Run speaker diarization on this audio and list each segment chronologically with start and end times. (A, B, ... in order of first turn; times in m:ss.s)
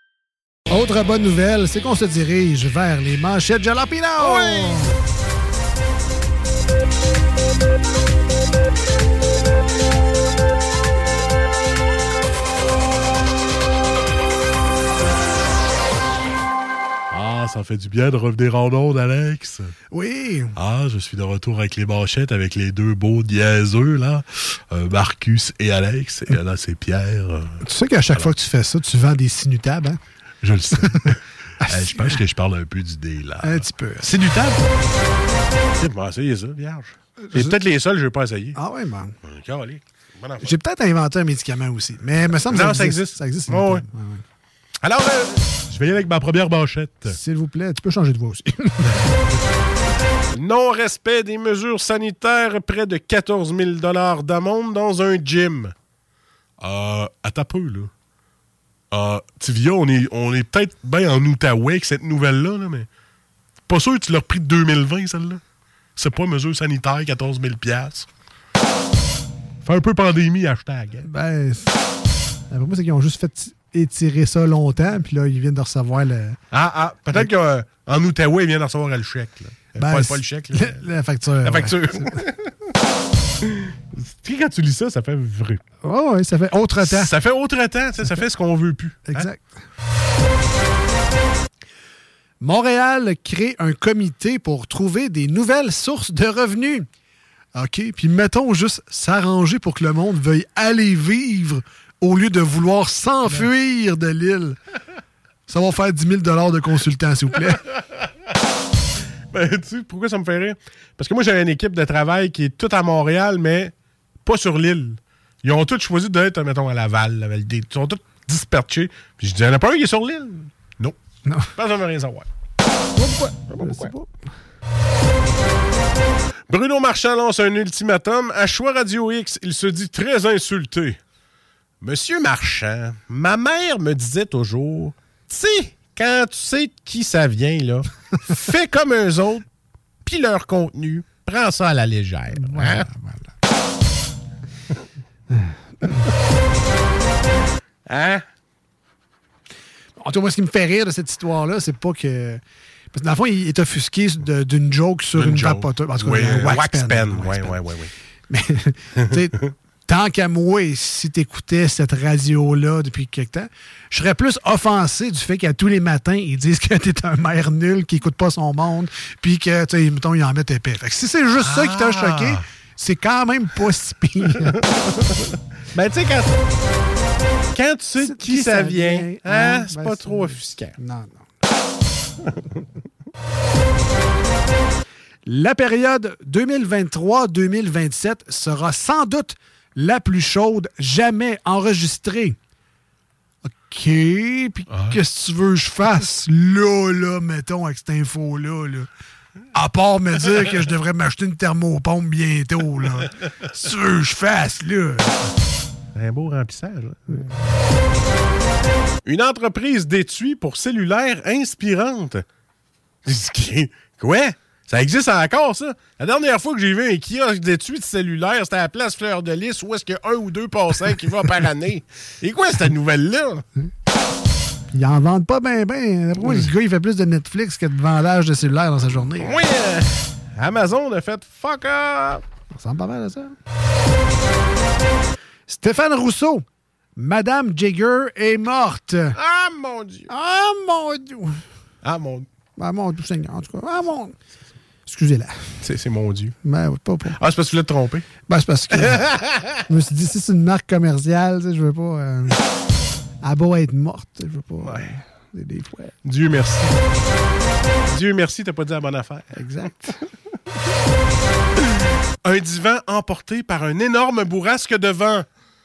0:00.7-0:05.0 A
0:04.2-0:05.0 B
0:17.1-0:19.7 B
0:19.9-0:20.6 A
0:20.6-0:28.3 B
0:27.6-0:30.0 A
0:30.4-0:34.6 B
0:31.6-0:32.2 A
0:33.4-0:34.2 A
0:35.8-0:38.6 B
0:37.2-0:37.6 A
0:38.6-0:39.2 A
0:39.2-0:40.6 B
0:40.4-0:44.2 A
0:42.5-0:43.8 B
0:44.8-0:47.2 B
0:47.1-0:49.1 A
0:50.3-0:55.7 B
0:56.6-0:57.9 B
0:58.9-1:02.9 B
1:03.7-1:05.4 B
1:06.0-1:08.1 B
1:09.6-1:11.1 B
1:11.0-1:11.8 A
1:12.5-1:16.4 A
1:16.5-1:20.9 B
1:19.8-1:22.2 A
1:21.4-1:22.5 B
1:23.4-1:25.6 B
1:25.8-1:27.1 A
1:26.8-1:29.3 B
1:29.1-1:29.5 A
1:32.4-1:36.9 A
1:37.6-1:44.6 A
1:45.5-1:47.7 A
1:49.3-2:01.0 B
2:01.3-2:01.5 A
2:01.6-2:02.3 B
2:03.0-2:04.1 A
2:03.4-2:03.9 B
2:06.5-2:11.0 B
2:11.8-2:19.5 B
2:20.0-2:22.9 B
2:22.3-2:23.3 A
2:25.3-2:26.0 A
2:27.9-2:28.2 B
2:30.0-2:32.4 A
2:32.9-2:37.6 A
2:35.1-2:37.9 B
2:38.3-2:54.7 A
2:51.3-2:52.4 B
2:54.3-2:56.4 B
2:57.5-3:00.8 B
2:58.0-3:01.2 A
3:05.3-3:12.4 A
3:13.5-3:18.9 A
3:14.7-3:15.0 B
3:19.5-3:25.2 A
3:25.9-3:27.3 B
3:29.0-3:32.2 B
3:33.0-3:43.4 B
3:44.7-3:49.5 A
3:49.2-3:52.2 B
3:52.6-3:53.4 A
3:55.5-3:56.4 A
3:57.0-3:59.2 A
3:59.2-4:00.1 B
4:00.1-4:01.4 A
4:01.8-4:02.3 B
4:02.6-4:04.2 A
4:04.9-4:05.7 A
4:05.6-4:06.4 B
4:06.4-4:07.2 A
4:07.1-4:08.0 B
4:08.3-4:12.4 A
4:08.8-4:09.5 B
4:13.2-4:16.0 A
4:14.6-4:15.0 B
4:16.0-4:16.8 B
4:17.9-4:19.4 B
4:19.3-4:20.0 A
4:22.2-4:25.3 B